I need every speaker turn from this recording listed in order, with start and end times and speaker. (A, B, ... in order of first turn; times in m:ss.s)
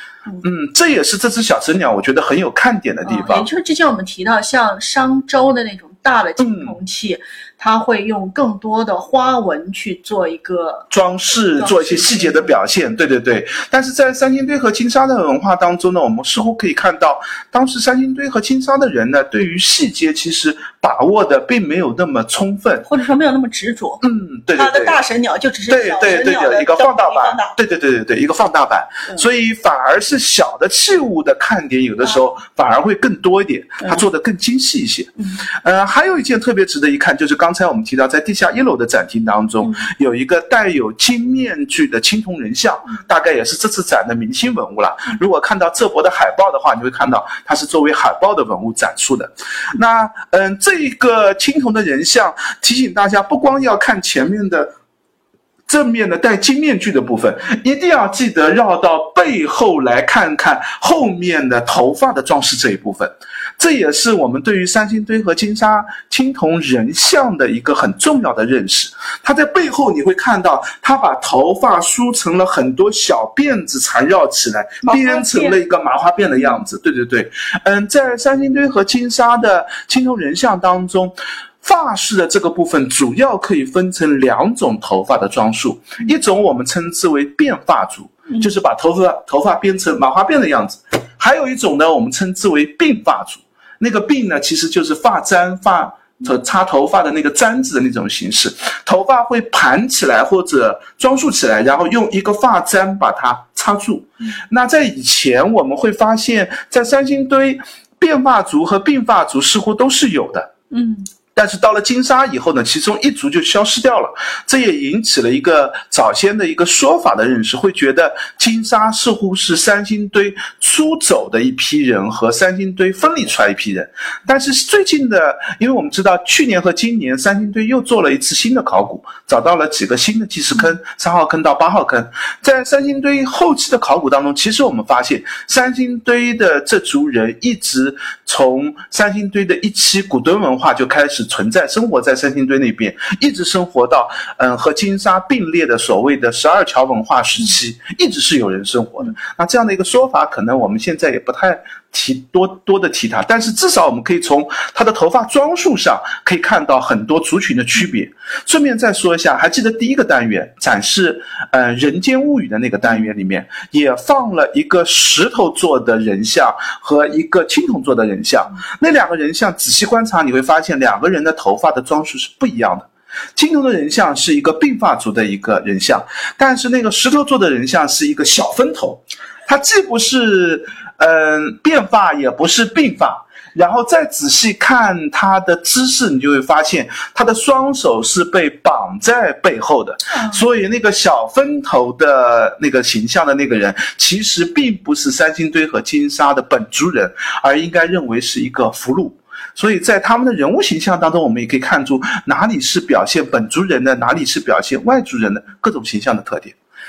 0:00.4-0:03.5 A
0:03.0-0:10.9 B
0:06.4-0:06.8 A
0:10.9-0:22.9 A
0:11.6-0:12.6 B
0:22.8-0:24.0 B
0:24.0-0:25.0 A
0:24.6-0:27.5 B
0:25.7-0:54.7 A
0:55.7-1:50.5 A
1:14.8-1:15.6 B
1:50.7-1:51.1 B
1:51.4-3:26.6 A
3:10.1-3:10.4 B